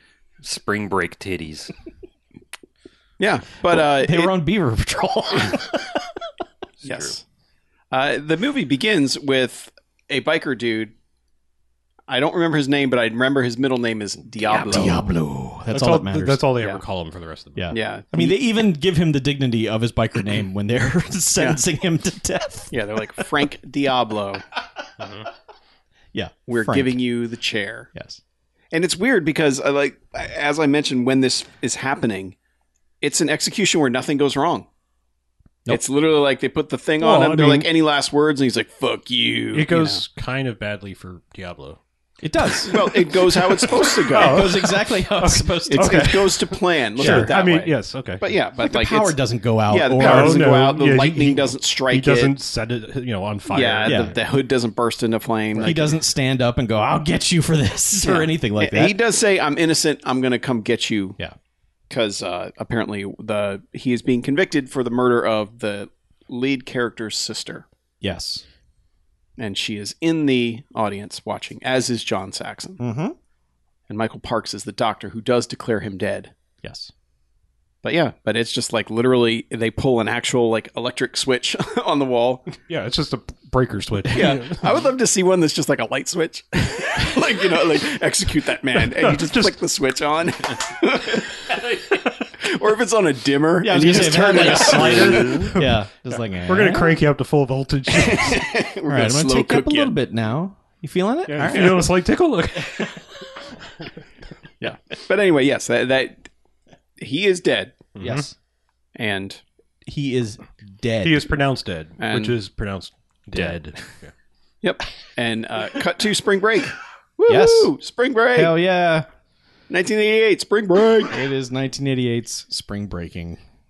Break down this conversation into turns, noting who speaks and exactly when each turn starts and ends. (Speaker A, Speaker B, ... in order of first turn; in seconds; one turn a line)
Speaker A: 0.4-1.7
Speaker B: 3.2-4.3
Speaker C: 3.6-6.1
Speaker A: 6.8-7.2
Speaker B: 6.8-7.2
Speaker B: 7.9-10.9
Speaker B: 12.1-15.1
Speaker A: 14.4-14.9
Speaker C: 14.7-16.4
Speaker D: 15.7-17.8
Speaker C: 17.6-23.3
Speaker B: 17.7-18.4
Speaker B: 22.7-24.4
Speaker D: 25.0-25.3
Speaker C: 26.1-27.0
Speaker B: 26.5-27.9
Speaker C: 27.9-28.2
Speaker B: 28.7-32.4
Speaker B: 33.0-34.7
Speaker B: 35.7-40.0
Speaker D: 37.0-37.7
Speaker D: 39.5-41.8
Speaker C: 42.2-43.1
Speaker B: 42.7-44.5
Speaker C: 43.8-46.3
Speaker D: 44.1-48.2
Speaker B: 45.7-49.1
Speaker C: 47.0-47.3
Speaker C: 48.6-50.5
Speaker B: 49.7-52.3
Speaker D: 50.0-54.1
Speaker B: 53.5-56.0
Speaker C: 53.9-54.1
Speaker C: 55.6-59.0
Speaker B: 58.0-61.2
Speaker B: 61.9-67.7
Speaker C: 68.0-68.4
Speaker B: 69.4-72.8
Speaker C: 72.8-73.2
Speaker B: 73.9-76.3
Speaker C: 76.6-76.9
Speaker B: 77.8-82.5
Speaker D: 82.7-84.7
Speaker B: 84.1-91.7
Speaker D: 88.9-89.6
Speaker B: 92.3-95.5
Speaker C: 93.6-97.0
Speaker D: 93.9-98.5
Speaker B: 97.9-99.9
Speaker C: 98.8-101.8
Speaker D: 101.3-103.0
Speaker B: 101.4-101.7
Speaker B: 104.6-106.2
Speaker B: 107.0-107.9
Speaker D: 108.0-108.3
Speaker C: 108.0-108.3
Speaker B: 109.0-109.4
Speaker C: 109.9-111.3
Speaker D: 111.0-114.1
Speaker B: 112.0-112.3
Speaker B: 114.6-118.5
Speaker C: 117.3-117.7
Speaker C: 118.3-119.1
Speaker B: 119.7-121.2
Speaker C: 121.1-123.4